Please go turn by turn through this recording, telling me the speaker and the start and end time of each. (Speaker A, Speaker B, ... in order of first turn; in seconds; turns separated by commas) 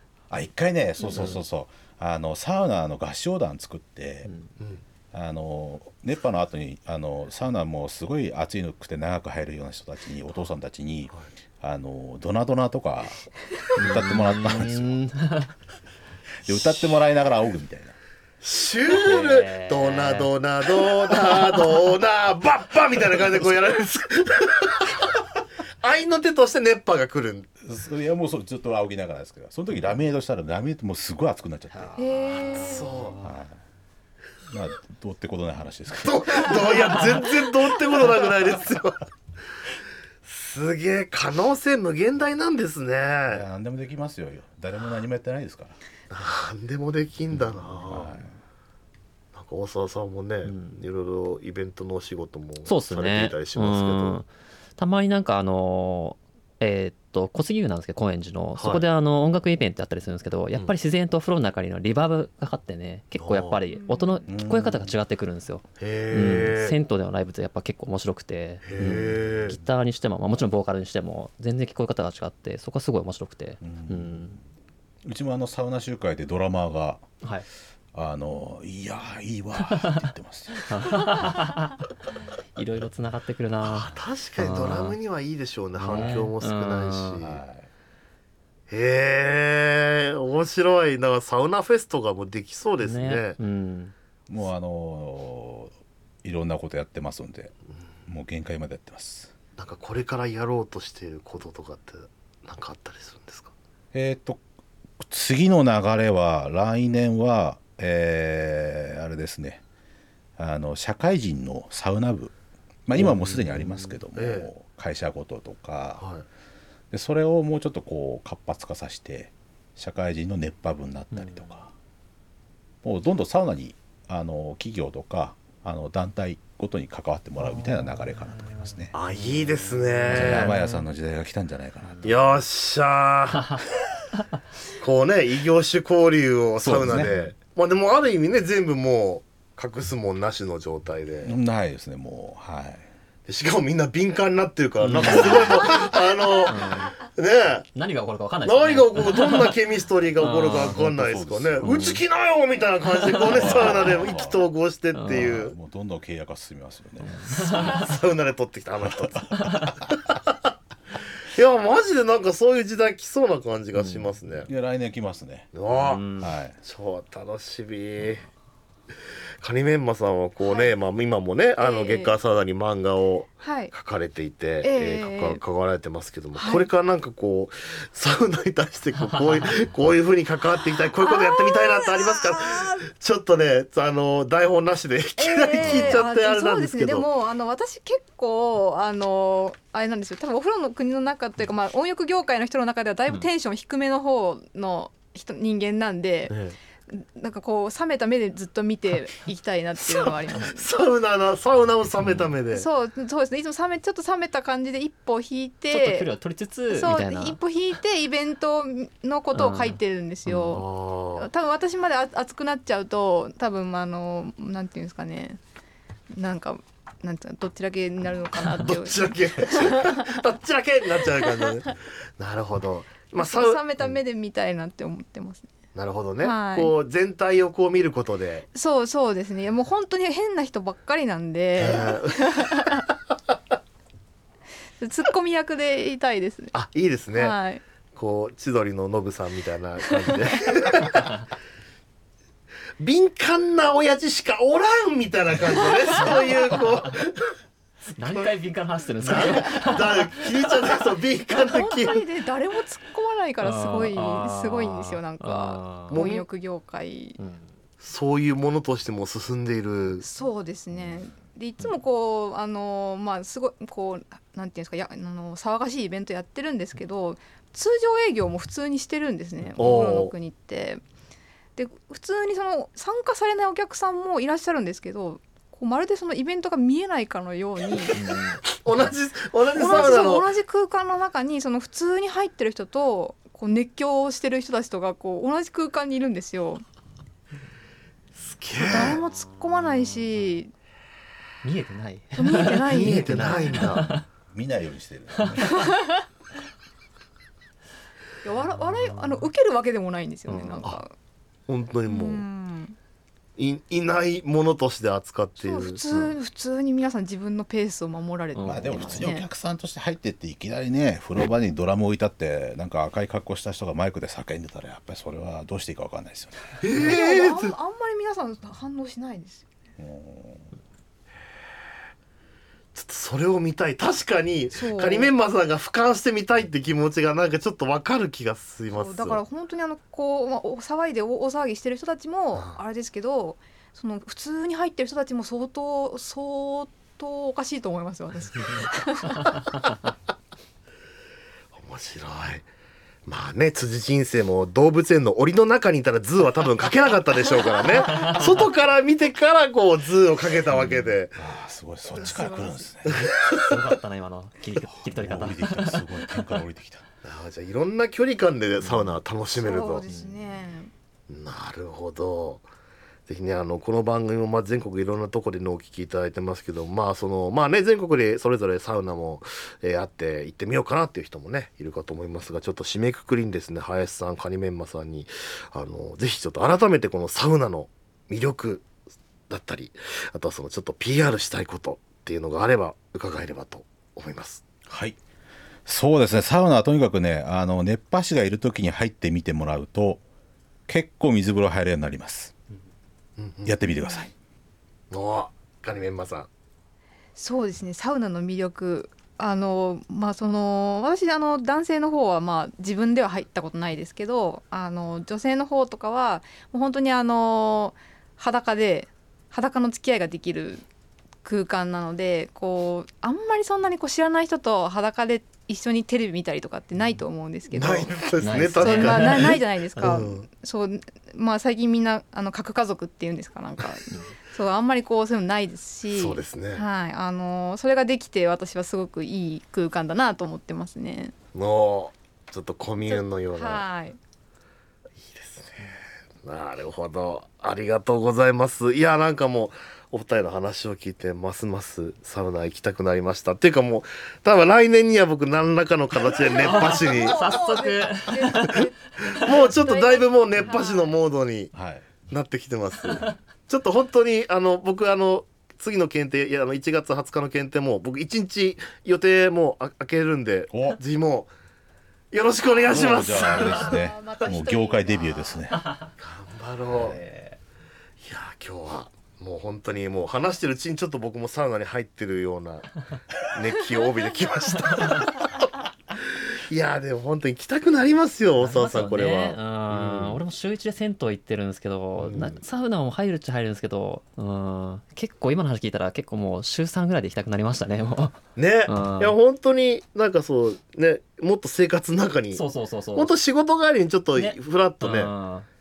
Speaker A: 0.3-4.3, Speaker B: 1.1-1.4, Speaker A: 5.1-13.2, Speaker A: 13.8-15.0, Speaker B: 13.8-15.5, Speaker A: 16.4-18.0, Speaker C: 18.4-25.0, Speaker B: 18.9-20.3, Speaker B: 20.9-21.6, Speaker C: 25.8-27.5, Speaker A: 27.6-32.0, Speaker B: 31.8-33.3, Speaker D: 32.0-33.0, Speaker C: 32.5-33.2, Speaker A: 33.2-33.6, Speaker A: 34.5-36.7, Speaker C: 36.0-39.1, Speaker C: 40.2-43.5, Speaker A: 43.3-45.8, Speaker C: 46.1-48.2, Speaker A: 47.8-48.4, Speaker C: 49.3-54.2, Speaker B: 50.4-50.8, Speaker B: 52.7-74.4, Speaker C: 58.6-58.8, Speaker C: 63.2-63.6, Speaker D: 63.7-64.2, Speaker A: 64.3-64.9, Speaker C: 65.8-66.8, Speaker C: 68.6-69.6, Speaker A: 73.6-74.4, Speaker A: 75.0-77.1, Speaker A: 77.9-80.7, Speaker B: 79.7-80.0, Speaker B: 80.5-81.8, Speaker B: 82.6-85.0, Speaker C: 83.6-87.4, Speaker B: 85.8-87.2, Speaker A: 87.2-87.7, Speaker C: 88.7-93.4, Speaker B: 92.8-93.9, Speaker A: 94.3-97.5, Speaker A: 98.1-99.3, Speaker C: 99.6-103.5, Speaker A: 103.9-104.4, Speaker A: 105.0-109.6, Speaker A: 110.4-112.3, Speaker A: 112.9-116.0, Speaker B: 113.0-114.0, Speaker C: 114.1-114.5, Speaker C: 116.0-116.3, Speaker A: 116.9-121.7, Speaker B: 121.1-121.5, Speaker A: 122.8-128.9, Speaker C: 128.9-130.6, Speaker B: 129.1-130.9, Speaker A: 130.1-132.4, Speaker C: 132.0-133.6, Speaker C: 134.8-141.4, Speaker A: 136.6-137.1, Speaker B: 136.9-137.2, Speaker A: 141.2-142.9, Speaker C: 143.3-147.7, Speaker B: 144.8-145.8, Speaker A: 145.0-145.4, Speaker B: 146.5-146.9, Speaker B: 147.8-149.6, Speaker C: 148.4-155.5, Speaker B: 150.2-150.8, Speaker A: 150.5-151.8, Speaker B: 151.6-152.0, Speaker B: 153.0-154.1, Speaker A: 153.3-154.5, Speaker B: 154.9-155.3, Speaker A: 155.1-157.2, Speaker B: 157.0-157.9, Speaker C: 157.4-159.9, Speaker A: 158.8-159.5, Speaker B: 159.4-159.7, Speaker C: 161.3-164.5, Speaker B: 163.7-164.2, Speaker A: 164.5-165.5, Speaker C: 165.5-166.0, Speaker B: 165.7-166.3, Speaker A: 166.2-166.6, Speaker C: 166.6-168.3, Speaker C: 169.4-187.1, Speaker D: 170.4-170.7, Speaker D: 171.6-172.1, Speaker D: 173.4-173.7, Speaker D: 174.6-175.4, Speaker D: 176.3-176.7, Speaker D: 181.0-182.8, Speaker D: 185.2-196.3, Speaker B: 185.6-186.0, Speaker C: 196.3-196.6, Speaker D: 196.9-200.7, Speaker C: 199.8-202.7, Speaker B: 202.0-202.3, Speaker D: 202.5-206.1, Speaker B: 205.7-207.4, Speaker D: 206.7-215.4, Speaker B: 209.3-210.6, Speaker C: 210.5-211.3, Speaker D: 216.1-220.2, Speaker C: 218.6-224.0, Speaker D: 223.2-225.5, Speaker C: 225.7-228.5, Speaker D: 226.2-226.8, Speaker D: 228.5-232.8, Speaker C: 231.6-232.7, Speaker D: 234.8-236.6, Speaker C: 236.5-237.4, Speaker D: 237.2-237.6, Speaker C: 237.9-241.1, Speaker C: 242.8-247.4, Speaker B: 247.9-250.5, Speaker C: 248.0-248.3, Speaker C: 249.0-252.0, Speaker D: 249.2-249.5, Speaker D: 251.4-257.2, Speaker B: 253.4-256.0, Speaker C: 255.9-256.2, Speaker B: 257.2-257.5, Speaker C: 257.8-260.0, Speaker D: 260.0-270.8, Speaker C: 269.6-270.1, Speaker D: 271.6-278.0, Speaker B: 277.9-278.4, Speaker C: 278.6-280.3, Speaker D: 279.5-286.6, Speaker C: 288.2-289.0, Speaker D: 288.6-290.5, Speaker B: 291.4-294.0, Speaker D: 292.1-293.6, Speaker C: 292.6-294.0, Speaker A: 294.3-295.6, Speaker D: 295.5-296.0, Speaker D: 298.2-300.9, Speaker B: 300.3-300.7, Speaker C: 301.5-302.2, Speaker D: 301.9-302.8, Speaker C: 303.4-306.1, Speaker D: 305.4-309.2, Speaker B: 308.4-309.1, Speaker A: 308.4-316.6, Speaker C: 316.6-317.5, Speaker D: 316.8-319.5, Speaker A: 319.8-320.5, Speaker C: 322.7-329.2, Speaker D: 324.5-325.1, Speaker D: 328.7-339.5, Speaker C: 341.5-342.5, Speaker C: 343.1-351.2, Speaker B: 350.5-350.9, Speaker A: 351.2-353.1, Speaker D: 352.0-352.7, Speaker C: 352.9-353.8, Speaker B: 353.1-356.1, Speaker A: 354.9-356.9, Speaker C: 357.0-359.9, Speaker B: 358.6-359.0, Speaker D: 359.4-360.7, Speaker B: 359.9-360.3, Speaker C: 361.1-362.4, Speaker C: 363.1-378.7, Speaker C: 379.3-384.4, Speaker A: 384.7-385.0, Speaker A: 385.7-390.0, Speaker A: 390.7-392.3, Speaker C: 393.2-393.6, Speaker A: 393.4-394.1, Speaker D: 393.8-394.1, Speaker C: 394.9-396.3, Speaker D: 397.2-410.6, Speaker D: 411.2-418.0, Speaker C: 417.5-420.3, Speaker B: 418.2-419.9, Speaker D: 418.6-431.1, Speaker C: 425.9-426.6, Speaker C: 431.3-433.6, Speaker D: 432.9-434.0, Speaker C: 435.0-447.4, Speaker D: 446.3-450.9, Speaker B: 446.4-448.6, Speaker C: 449.1-451.5, Speaker A: 451.5-451.9, Speaker C: 452.1-461.3, Speaker A: 460.5-460.8, Speaker C: 462.1-463.8, Speaker A: 462.7-465.6, Speaker D: 463.0-465.4, Speaker C: 466.0-467.0, Speaker B: 466.7-467.4, Speaker C: 468.0-475.5, Speaker C: 476.5-480.2, Speaker B: 478.4-489.2, Speaker C: 482.0-482.4, Speaker C: 488.4-492.4, Speaker B: 492.3-493.1, Speaker C: 492.9-495.1, Speaker B: 494.1-495.5